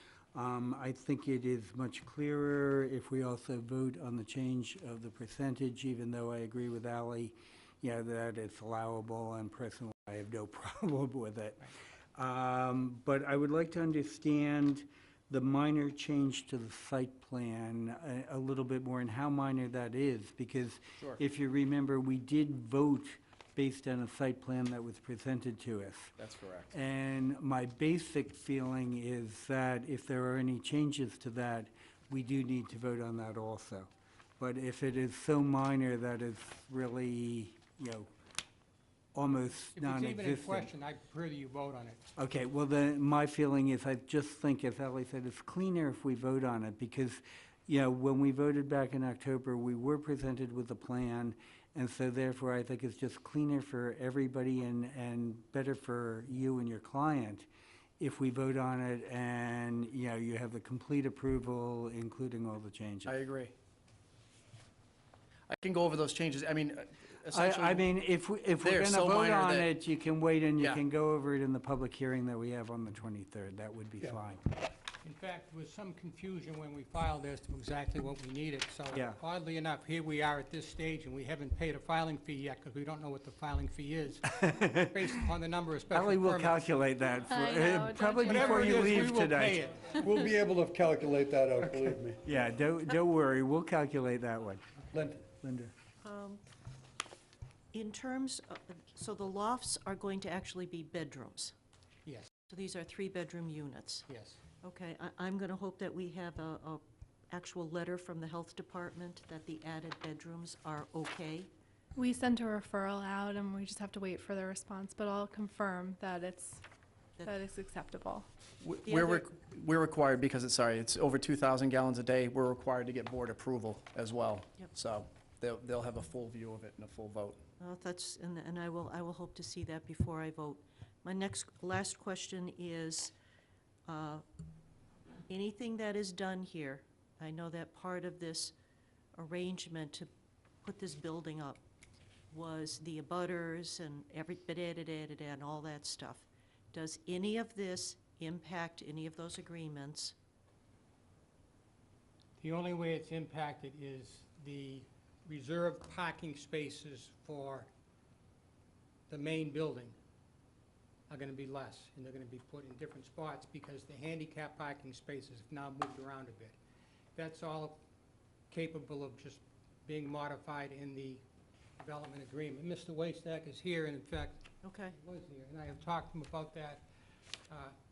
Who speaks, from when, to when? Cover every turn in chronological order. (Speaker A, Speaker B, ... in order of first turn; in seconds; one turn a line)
Speaker A: 0.3-26.1
Speaker B: 26.2-26.7
Speaker A: 26.7-38.1
Speaker A: 39.1-40.7
Speaker C: 39.7-42.0
Speaker A: 42.1-57.5
Speaker A: 58.0-63.1
Speaker B: 63.0-63.5
Speaker B: 65.5-67.8
Speaker A: 67.3-74.4
Speaker B: 68.6-69.7
Speaker C: 75.0-86.7
Speaker A: 78.9-79.2
Speaker A: 84.4-85.0
Speaker A: 85.9-89.7
Speaker D: 87.2-89.1
Speaker C: 88.2-90.0
Speaker E: 89.9-92.2
Speaker A: 92.2-95.7
Speaker F: 96.0-96.4
Speaker F: 97.7-101.5
Speaker F: 102.5-104.0
Speaker C: 104.1-104.4
Speaker F: 104.6-111.5
Speaker D: 111.9-116.6
Speaker D: 117.2-118.2
Speaker B: 118.6-127.4
Speaker F: 118.8-119.4
Speaker F: 127.6-133.1
Speaker F: 133.9-134.2
Speaker F: 135.3-138.5
Speaker F: 139.1-140.1
Speaker F: 140.6-141.6
Speaker F: 142.3-150.1
Speaker C: 152.4-157.7
Speaker C: 159.1-160.0
Speaker C: 161.1-166.6
Speaker C: 167.2-167.8
Speaker C: 168.5-171.2
Speaker C: 171.8-176.8
Speaker F: 174.6-174.9
Speaker C: 177.5-177.7